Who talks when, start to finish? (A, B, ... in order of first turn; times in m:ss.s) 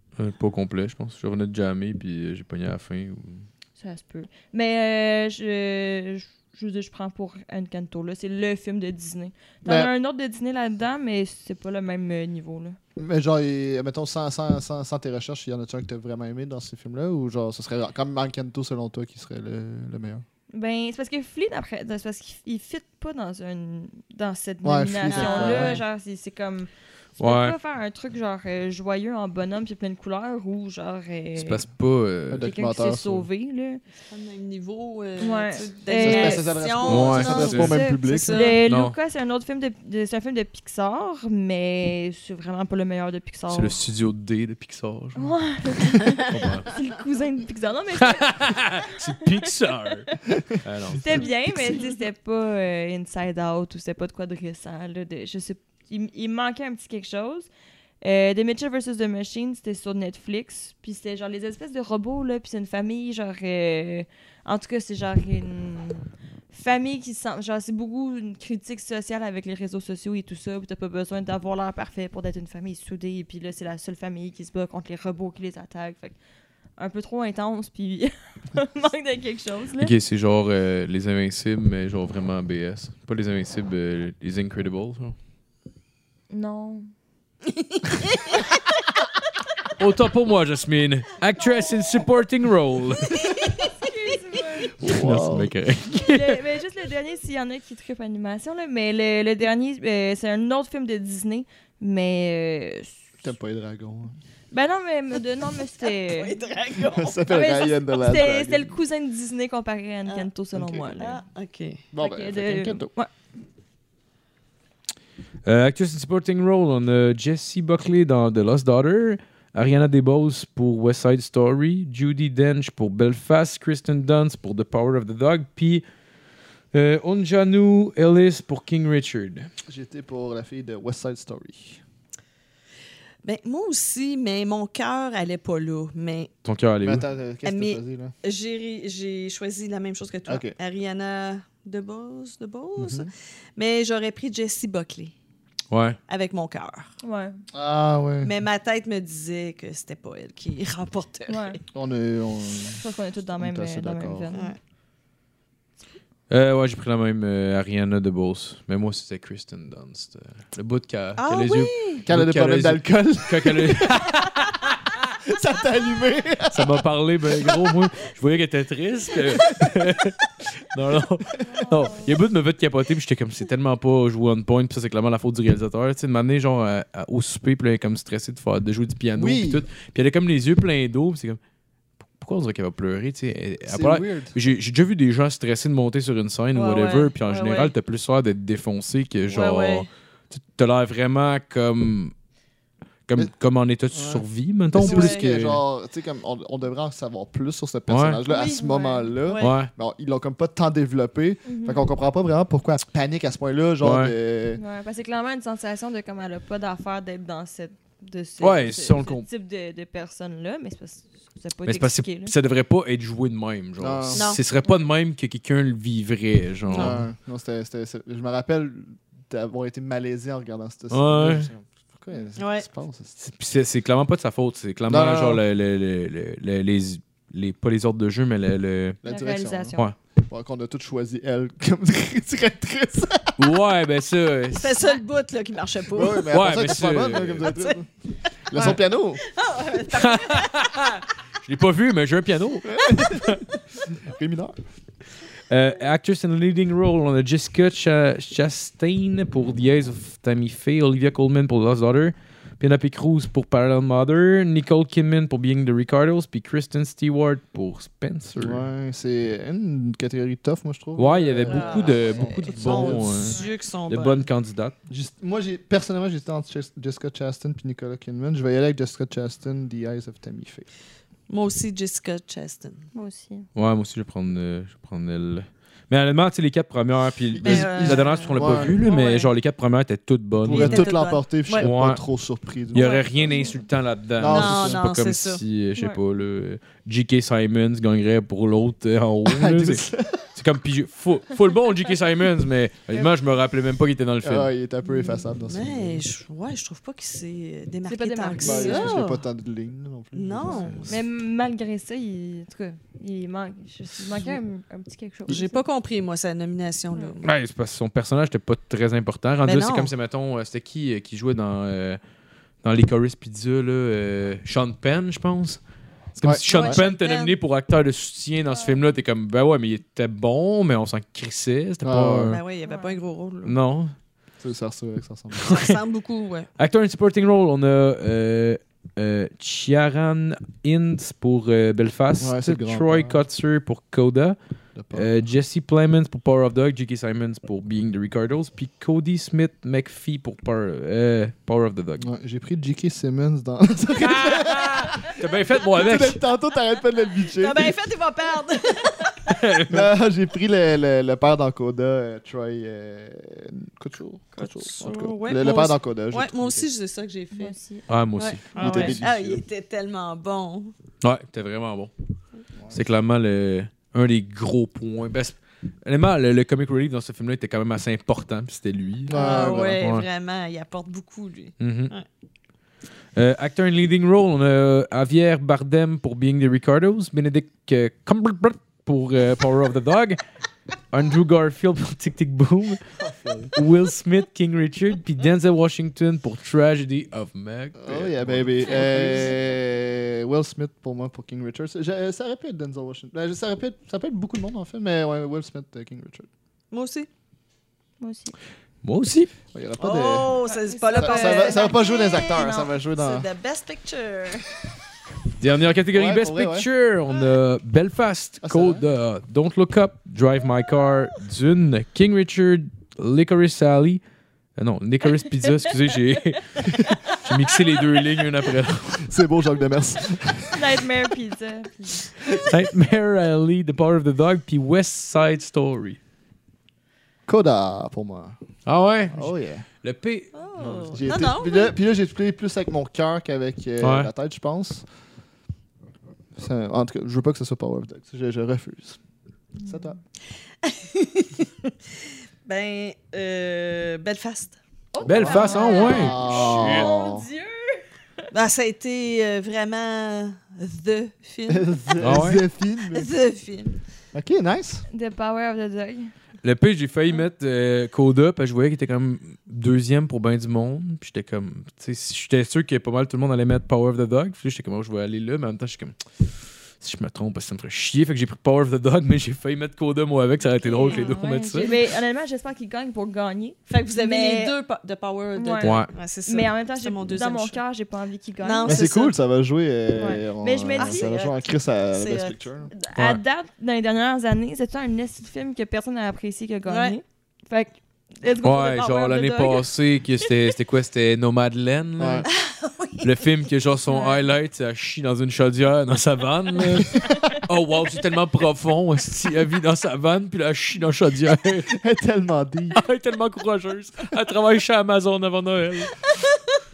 0:00.2-0:03.5 A
0:03.8-0:12.8 B
0:09.6-0:09.9 C
0:13.0-0:20.2 C
0:20.5-0:31.6 B
0:24.6-0:25.8 C
0:25.1-0:25.8 D
0:27.2-0:27.6 A
0:31.4-0:32.5 A
0:32.3-0:33.3 C
0:32.4-0:33.8 B
0:34.1-0:38.6 D
0:35.2-0:36.6 B
0:36.0-0:38.6 C
0:36.9-0:37.8 A
0:37.3-0:43.8 B
0:38.7-0:39.0 A
0:43.5-0:45.6 A
0:45.2-0:50.4 B
0:46.2-0:46.7 A
0:48.1-0:51.7 A
0:51.0-0:57.5 B
0:58.0-1:16.2 B
1:16.8-1:19.9 B
1:19.8-1:25.2 A
1:26.3-1:26.9 B
1:27.8-1:28.3 D
1:29.8-1:33.5 A
1:33.2-1:33.5 D
1:33.8-1:34.7 B
1:34.8-1:35.5 C
1:34.8-1:36.4 A
1:36.0-1:43.0 B
1:43.2-1:44.2 C
1:44.5-1:46.4 B
1:46.1-1:47.2 D
1:46.9-1:48.8 C
1:47.3-1:51.2 B
1:50.5-1:50.9 C
1:51.0-1:51.8 D
1:51.9-1:52.9 C
1:52.0-1:53.1 B
1:55.4-2:05.8 A
2:06.7-2:09.5 A
2:09.7-2:11.8 C
2:13.2-2:16.3 D
2:16.4-2:17.1 A
2:16.8-2:18.1 C
2:17.4-2:25.1 D
2:20.3-2:20.6 C
2:22.8-2:23.1 C
2:25.7-2:26.0 A
2:26.1-2:26.9 D
2:27.0-2:27.4 B
2:27.5-2:28.3 C
2:28.2-2:31.6 D
2:31.3-2:31.6 B
2:31.7-2:32.8 C
2:32.8-2:34.5 B
2:33.4-2:34.3 C
2:34.3-2:34.6 D
2:36.3-2:44.7 A
2:41.2-2:42.0 D
2:42.1-2:44.2 C
2:45.2-2:47.8 C
2:46.5-3:01.4 A
2:51.4-2:52.0 B
2:59.2-2:59.6 C
3:02.1-3:12.1 A
3:03.7-3:04.4 C
3:06.6-3:07.7 D
3:09.3-3:09.9 D
3:13.1-3:15.6 A
3:13.9-3:24.6 C
3:14.8-3:15.3 D
3:17.9-3:18.2 A
3:18.3-3:19.2 B
3:19.3-3:19.6 D
3:19.4-3:19.7 A
3:21.4-3:21.8 B
3:23.8-3:24.2 A
3:24.6-3:32.3 B
3:28.4-3:29.3 A
3:31.7-3:37.0 A
3:33.8-3:34.4 C
3:34.2-3:34.4 D
3:36.7-3:37.0 D
3:36.7-3:43.2 C
3:40.9-3:41.5 A
3:42.4-3:42.7 D
3:43.2-3:49.0 A
3:44.9-3:45.4 C
3:49.0-3:53.4 C
3:49.1-3:49.8 B
3:53.4-3:54.8 A
3:54.6-3:56.3 D
3:55.9-3:57.9 C
3:56.3-3:57.6 A
3:57.4-3:57.8 D
3:58.5-3:59.2 C
3:59.3-4:00.9 D
3:59.9-4:03.4 A
4:02.7-4:04.6 C
4:05.5-4:18.6 A
4:18.4-4:23.4 C
4:21.0-4:24.7 A
4:21.5-4:24.2 D
4:24.9-4:30.7 C
4:31.3-4:32.9 D
4:32.9-4:33.5 B
4:33.6-4:40.9 A
4:37.3-4:38.8 C
4:37.4-4:39.3 D
4:40.4-4:43.1 C
4:40.5-4:41.7 D
4:41.5-4:42.0 A
4:42.7-4:54.5 A
4:42.7-4:43.5 D
4:43.2-4:43.6 B
4:44.2-4:44.8 C
4:44.3-4:45.4 D
4:49.2-4:50.3 C
4:54.2-4:56.0 C
4:55.4-4:59.2 D
4:57.9-4:59.0 B
4:58.4-5:01.0 C
5:00.1-5:01.0 D
5:00.5-5:05.6 B
5:05.3-5:07.3 D
5:07.2-5:12.0 A
5:09.4-5:09.9 D
5:12.6-5:15.6 A
5:16.1-5:22.4 A
5:16.2-5:16.8 C
5:16.5-5:17.4 D
5:18.5-5:18.8 B
5:21.8-5:22.4 C
5:22.3-5:23.6 D
5:22.6-5:23.0 B
5:23.4-5:23.9 A
5:24.4-5:25.6 C
5:25.4-5:25.8 A
5:25.4-5:26.5 D
5:26.6-5:34.4 A
5:32.2-5:33.2 C
5:34.8-5:35.1 C
5:34.9-5:42.1 A
5:42.0-5:47.8 C
5:44.0-5:46.2 A
5:47.3-5:49.4 D
5:49.3-5:49.9 A
5:49.7-5:56.7 C
5:54.4-5:57.6 D
5:57.3-5:57.8 B
5:57.9-5:59.1 A
5:58.2-6:00.7 D
5:58.6-5:59.4 C
6:01.0-6:01.9 A
6:02.7-6:10.1 A
6:09.1-6:09.8 C
6:09.1-6:12.1 D
6:11.6-6:12.0 A
6:13.2-6:20.2 A
6:20.9-6:22.9 A
6:23.0-6:23.5 C
6:23.5-6:29.3 A
6:27.8-6:36.3 C
6:28.9-6:29.4 D
6:36.7-6:37.1 D
6:38.0-6:38.3 B
6:38.8-6:39.3 A
6:39.5-6:43.3 C
6:39.8-6:44.6 D
6:40.4-6:41.8 B
6:45.4-6:54.0 A
6:45.9-6:46.7 C
6:48.4-6:48.8 C
6:54.6-6:59.1 A
6:56.9-6:57.2 B
6:58.9-7:00.7 C
7:00.5-7:02.1 B
7:02.4-7:06.0 A
7:07.3-7:08.4 C
7:08.7-7:11.0 A
7:09.1-7:09.7 C
7:10.3-7:11.7 D
7:10.9-7:14.8 C
7:13.8-7:14.1 A
7:16.4-7:19.0 C
7:19.6-7:20.0 B
7:19.6-7:20.0 C
7:20.6-7:21.7 D
7:22.4-7:24.6 D
7:24.9-7:27.8 B
7:25.0-7:26.9 A
7:25.1-7:27.3 C
7:25.2-7:25.6 D
7:28.3-7:32.0 D
7:31.5-7:33.1 C
7:32.0-7:32.4 A
7:32.9-7:33.8 D
7:34.1-7:34.9 C
7:34.9-7:36.1 B
7:36.4-7:51.7 A
7:50.6-7:51.8 D
7:50.9-7:54.6 B
7:53.7-7:57.6 D
7:55.4-7:58.8 B
7:55.6-7:55.9 A
7:58.4-7:59.2 D
7:58.6-8:02.7 C
8:00.0-8:01.2 B
8:00.8-8:01.4 D
8:01.9-8:02.4 D
8:02.7-8:09.7 B
8:03.0-8:03.2 A
8:06.7-8:07.0 D
8:08.4-8:12.3 A
8:12.0-8:12.3 C
8:12.3-8:13.3 D
8:13.0-8:21.7 A
8:13.9-8:14.2 B
8:21.7-8:22.8 C
8:22.7-8:26.0 A